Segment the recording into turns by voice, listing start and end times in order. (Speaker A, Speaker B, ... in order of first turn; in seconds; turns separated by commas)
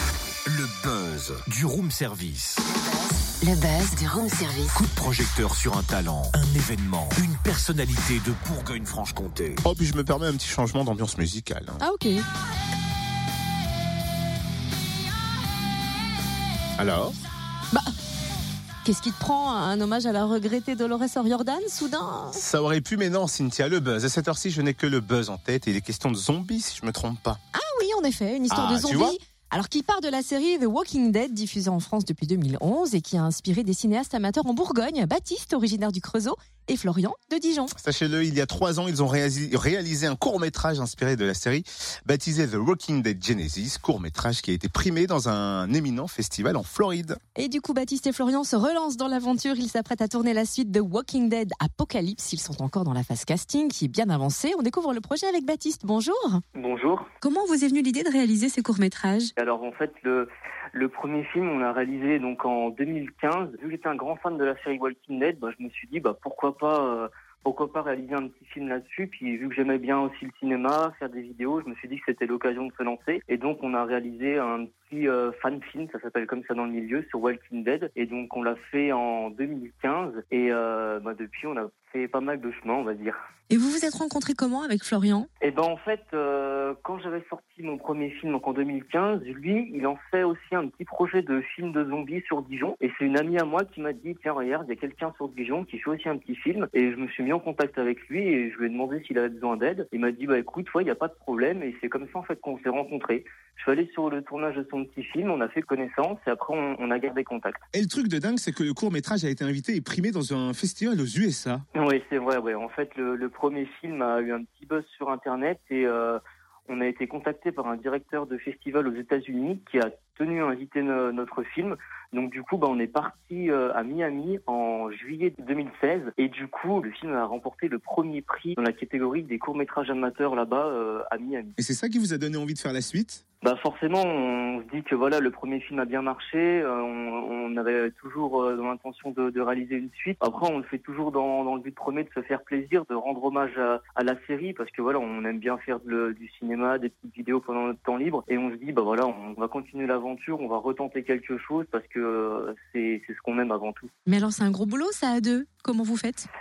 Speaker A: 0.5-2.6, Speaker B: 2.6-4.8, Speaker A: 4.7-9.6, Speaker C: 9.6-11.8, Speaker D: 11.8-12.2, Speaker C: 16.8-17.1, Speaker D: 18.8-22.4, Speaker C: 22.3-27.4, Speaker D: 27.5-37.7, Speaker C: 28.5-29.2, Speaker C: 37.8-47.2, Speaker D: 47.4-56.4, Speaker E: 56.5-57.1, Speaker D: 57.2-59.3, Speaker E: 59.4-83.2, Speaker D: 83.6-85.3, Speaker E: 85.4-107.6, Speaker C: 107.7-111.6, Speaker E: 111.7-131.6, Speaker C: 131.6-133.2, Speaker E: 133.4-153.9, Speaker D: 154.1-156.3